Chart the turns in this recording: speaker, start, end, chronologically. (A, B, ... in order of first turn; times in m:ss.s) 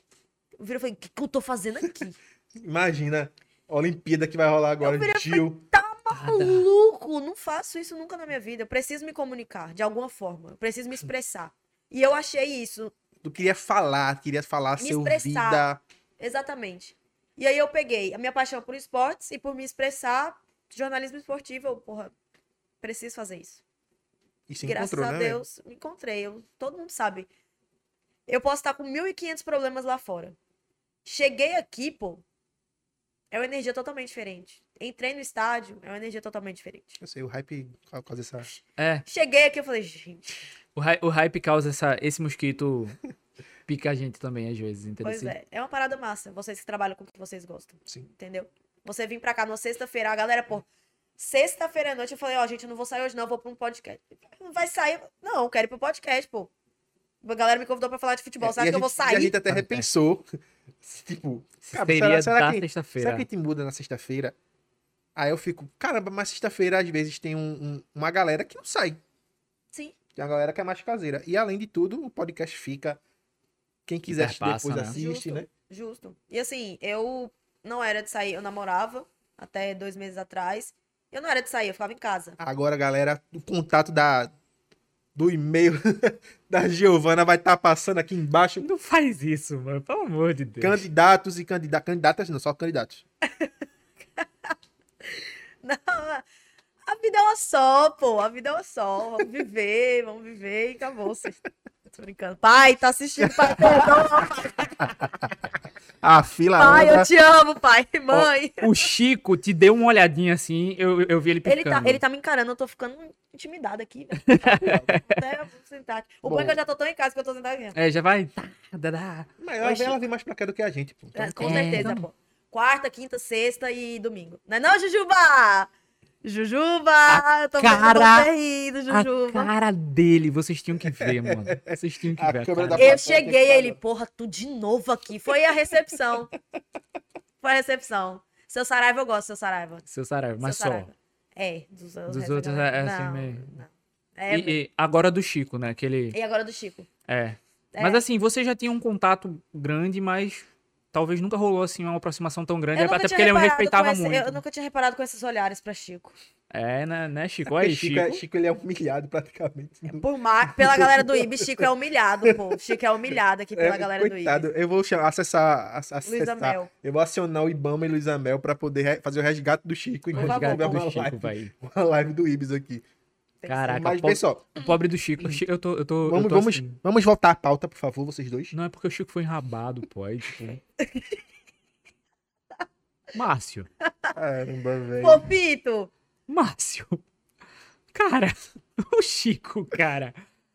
0:00.6-0:02.2 A
0:02.5-0:05.6 B
0:04.8-0:12.9 A
0:06.1-0:06.7 C
0:13.2-0:15.8 B
0:14.8-0:22.1 A
0:22.8-0:23.6 A
0:24.5-0:25.4 B
0:24.6-0:27.3 A
0:28.3-0:30.4 A
0:31.0-0:32.2 A
0:33.3-0:37.0 A
0:37.0-0:38.5 B
0:38.5-0:40.3 A
0:38.8-0:39.0 C
0:40.8-0:43.0 C
0:43.7-0:45.3 C
0:45.0-0:50.7 A
0:51.2-0:56.5 A
0:57.2-0:59.4 A
0:58.4-1:00.3 B
0:59.5-0:59.8 C
1:00.8-1:04.3 B
1:01.7-1:03.2 C
1:05.1-1:09.0 B
1:10.1-1:13.0 B
1:13.9-1:15.5 B
1:14.1-1:15.0 C
1:14.9-1:22.4 A
1:22.4-1:24.3 B
1:25.1-1:28.7 B
1:28.6-1:30.8 C
1:30.6-1:33.0 B
1:33.2-1:33.5 A
1:35.0-1:36.2 A
1:36.8-1:41.4 A
1:41.9-1:44.8 A
1:46.0-1:47.1 B
1:46.6-1:48.7 A
1:48.1-1:52.0 C
1:51.4-1:57.8 A
1:54.3-1:55.2 C
1:56.2-1:56.6 B
1:57.7-1:59.3 C
1:59.4-2:01.9 B
1:59.6-2:00.0 A
2:01.1-2:05.7 A
2:01.4-2:02.0 C
2:06.2-2:09.5 A
2:07.1-2:08.3 C
2:08.9-2:13.0 C
2:10.9-2:13.8 B
2:12.8-2:16.3 A
2:17.4-2:19.8 A
2:19.9-2:20.9 C
2:20.4-2:24.6 A
2:22.1-2:23.6 C
2:24.3-2:26.2 C
2:26.1-2:26.9 A
2:27.1-2:34.4 C
2:27.7-2:28.0 A
2:32.7-2:36.1 A
2:36.5-2:38.2 C
2:37.4-2:41.7 B
2:39.9-2:44.5 A
2:42.2-2:42.8 B
2:43.5-2:52.8 B
2:46.0-2:46.7 A
2:50.1-2:51.5 C
2:50.2-2:50.9 A
2:53.4-2:53.9 A
2:53.5-2:56.8 C
2:53.7-2:54.5 B
2:56.0-2:58.5 B
2:58.5-3:00.6 C
3:00.8-3:01.2 A
3:03.1-3:03.7 C
3:04.1-3:05.3 B
3:05.0-3:05.9 A
3:06.3-3:07.0 C
3:07.9-3:10.1 C